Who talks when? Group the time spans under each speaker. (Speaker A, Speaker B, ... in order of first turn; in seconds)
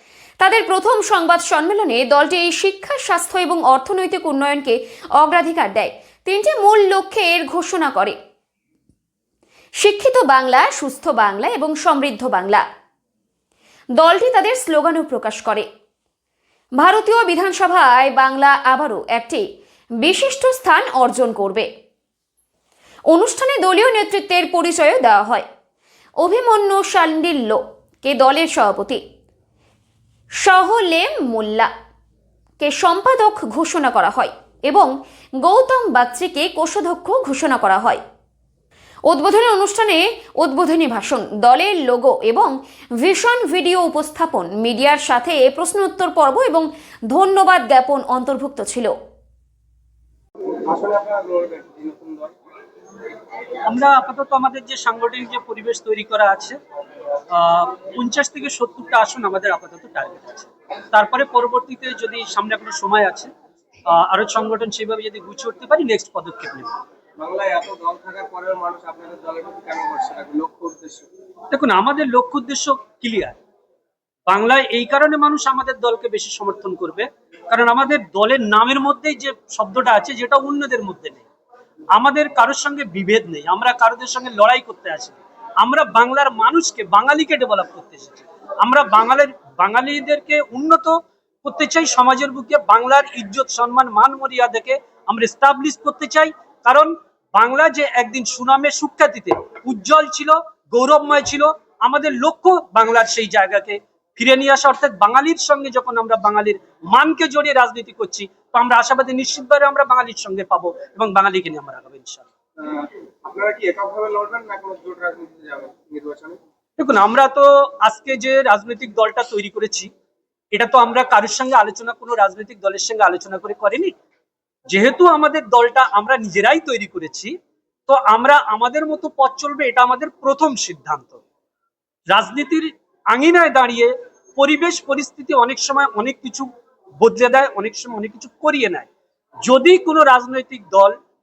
Speaker A: 0.4-8.2, 9.8-12.6, 14.0-15.7, 16.8-19.4, 20.0-21.7, 23.1-25.5, 26.2-29.0, 30.4-31.7, 32.6-34.9, 35.4-38.0, 39.1-42.5, 43.0-48.9
Speaker B: 50.6-52.3, 67.2-71.1, 112.6-116.4
Speaker C: 53.7-56.6, 57.3-63.3, 63.9-66.7, 71.5-73.4, 74.3-81.2, 82.0-112.2, 116.8-119.9, 120.5-123.9, 124.7-127.3, 127.9-131.2, 132.1-136.5, 137.0-138.9, 139.4-141.0